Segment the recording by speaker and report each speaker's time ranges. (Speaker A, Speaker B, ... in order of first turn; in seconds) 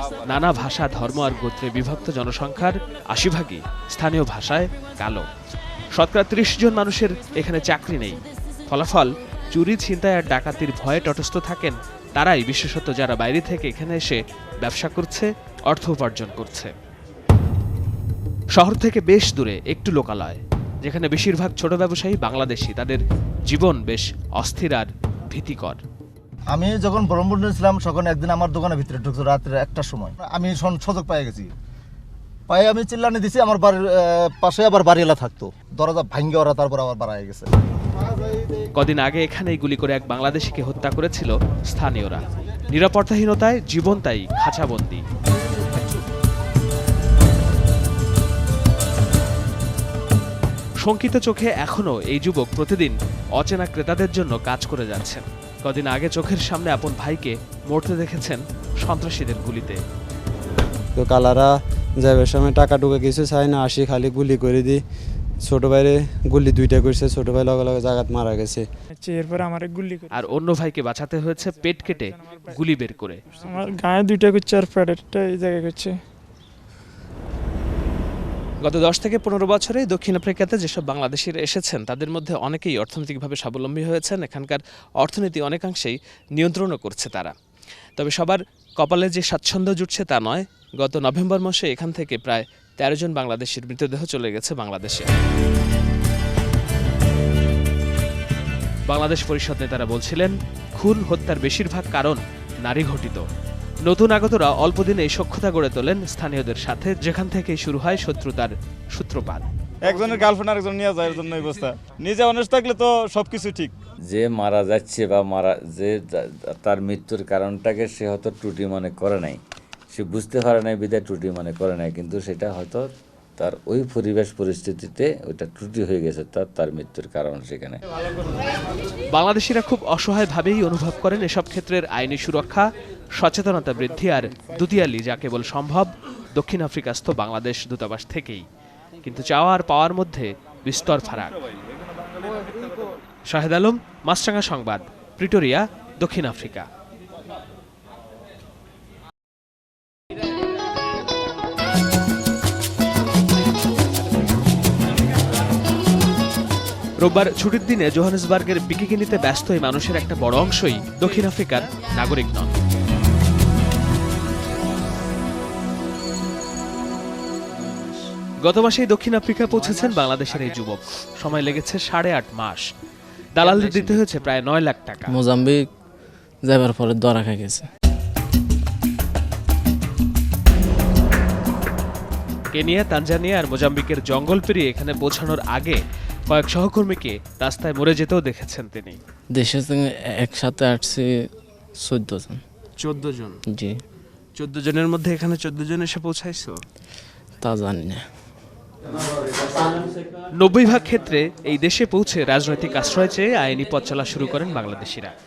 Speaker A: 0.3-5.3, 5.9-16.7, 18.6-25.8, 38.8-45.0, 50.8-59.8, 70.1-73.2, 78.6-87.3, 88.0-95.1, 98.9-103.3, 103.8-109.5, 129.1-138.5, 139.0-141.4, 143.3-146.7, 157.0-162.5, 168.4-172.7, 173.3-175.1, 182.5-189.0, 192.8-193.4, 194.4-196.6, 200.4-205.1
Speaker B: 26.5-31.5, 32.5-37.5
Speaker C: 61.0-64.8, 65.4-68.7
Speaker D: 69.0-70.2, 71.5-72.6, 73.3-76.0
Speaker E: 109.9-113.7
Speaker F: 114.1-119.4, 119.9-127.8
Speaker G: 175.1-175.7, 176.4-177.7, 189.3-192.4, 193.5-193.8, 197.4-198.1